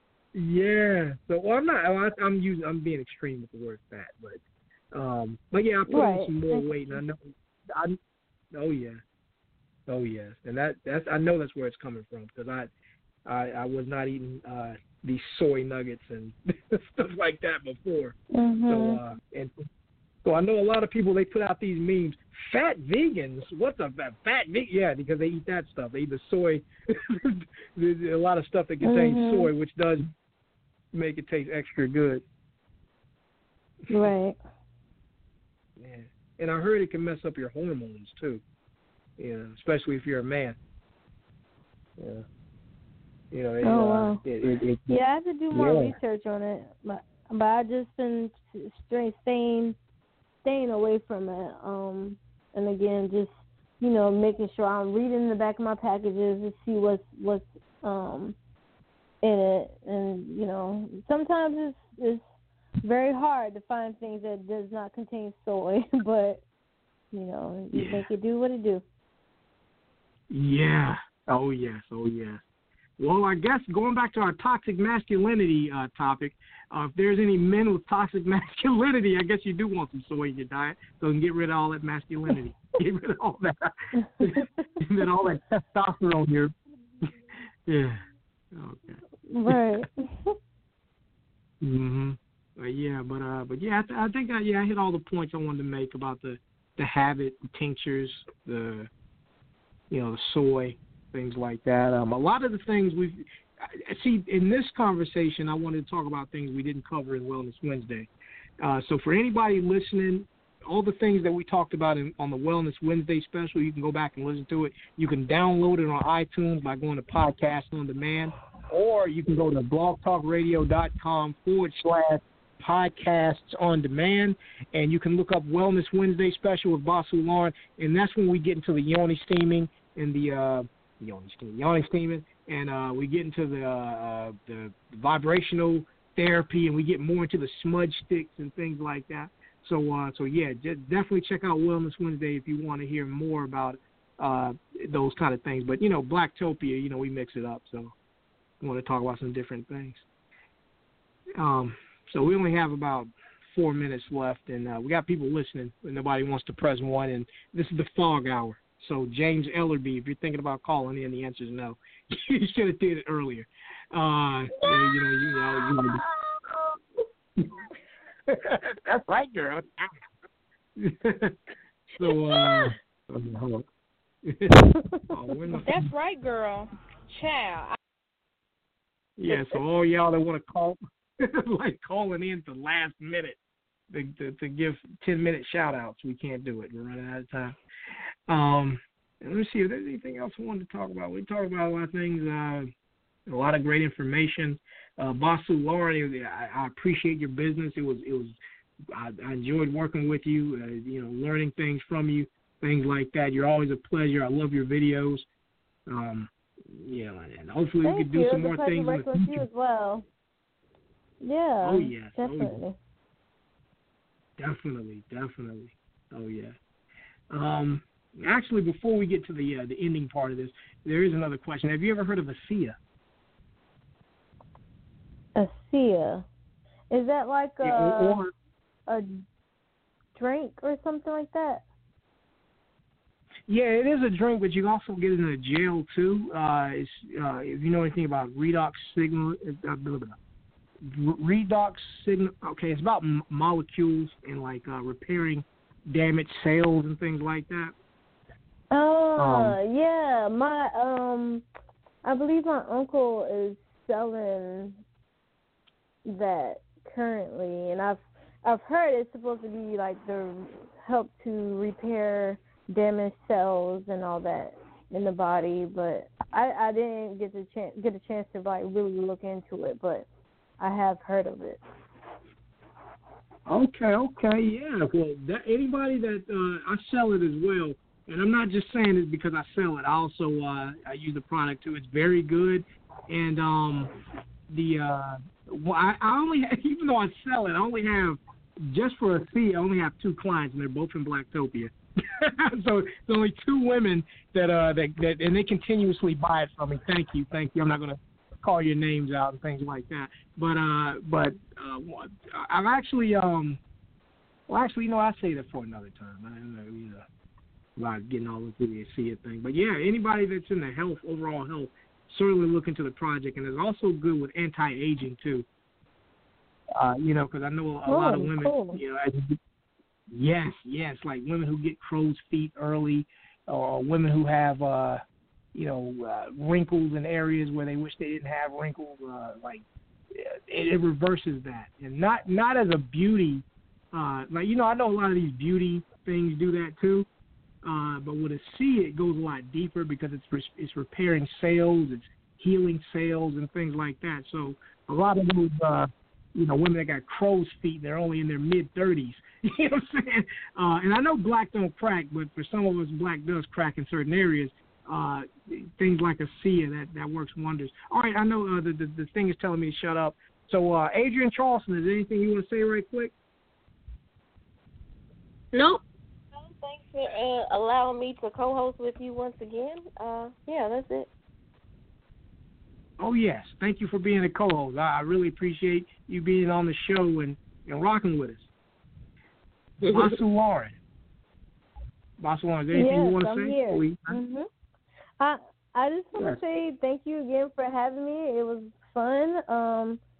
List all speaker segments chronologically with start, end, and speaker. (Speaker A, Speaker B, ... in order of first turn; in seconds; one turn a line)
Speaker A: 0.3-4.4
Speaker A: 4.9-8.0
Speaker B: 5.9-7.0
Speaker A: 8.5-9.0
Speaker A: 9.9-12.7
Speaker A: 13.2-18.2
Speaker B: 18.3-19.0
Speaker A: 18.7-19.6
Speaker A: 20.2-30.1
Speaker B: 28.8-29.5
Speaker A: 30.9-32.2
Speaker B: 33.9-34.4
Speaker A: 35.8-38.4
Speaker A: 39.2-40.6
Speaker A: 42.0-42.2
Speaker A: 43.3-45.0
Speaker B: 43.6-44.2
Speaker B: 44.9-49.8
Speaker A: 45.5-46.0
Speaker B: 50.4-58.3
Speaker B: 59.2-62.2
Speaker B: 62.8-66.4
Speaker B: 67.1-68.8
Speaker A: 67.7-68.1
Speaker A: 70.3-72.4
Speaker A: 73.0-83.6
Speaker B: 84.0-84.7
Speaker A: 84.2-87.1
Speaker A: 87.7-88.0
Speaker A: 88.5-89.6
Speaker B: 89.2-90.3
Speaker A: 91.6-98.9
Speaker A: 99.9-108.1
Speaker A: 108.6-147.9
Speaker A: 148.6-150.1
Speaker A: 151.4-166.0
Speaker A: 167.4-167.6
Speaker A: 168.3-170.0
Speaker A: 170.8-171.3
Speaker A: 171.9-173.7
Speaker A: 174.2-175.9
Speaker B: 174.7-175.6
Speaker C: 175.7-177.8
Speaker A: 179.2-183.4
Speaker A: 183.9-187.5
Speaker A: 188.3-192.7
Speaker A: 193.3-198.3
Speaker A: 198.9-205.2
Speaker A: 205.9-209.5
Speaker B: 207.8-210.1
Speaker B: 211.2-212.7
Speaker A: 211.6-212.6
Speaker A: 214.4-216.6
Speaker A: 217.3-222.8
Speaker B: 225.3-226.2
Speaker B: 226.9-228.2
Speaker A: 227.6-228.3
Speaker B: 230.2-231.7
Speaker A: 233.5-240.2
Speaker A: 240.8-247.7
Speaker B: 248.7-251.4
Speaker A: 249.2-249.6
Speaker B: 252.0-254.8
Speaker B: 256.0-270.1
Speaker B: 270.6-271.6
Speaker A: 273.5-283.9
Speaker A: 284.5-303.6
Speaker A: 304.5-307.1
Speaker A: 307.8-315.4
Speaker A: 316.8-319.4
Speaker B: 317.9-318.8
Speaker A: 320.1-325.0
Speaker A: 325.5-337.1
Speaker A: 337.6-363.1
Speaker D: 365.5-365.8
Speaker D: 366.4-371.1
Speaker A: 373.0-378.5
Speaker D: 379.8-380.2
Speaker A: 379.8-380.8
Speaker A: 382.2-384.2
Speaker B: 382.7-384.4
Speaker B: 385.2-390.0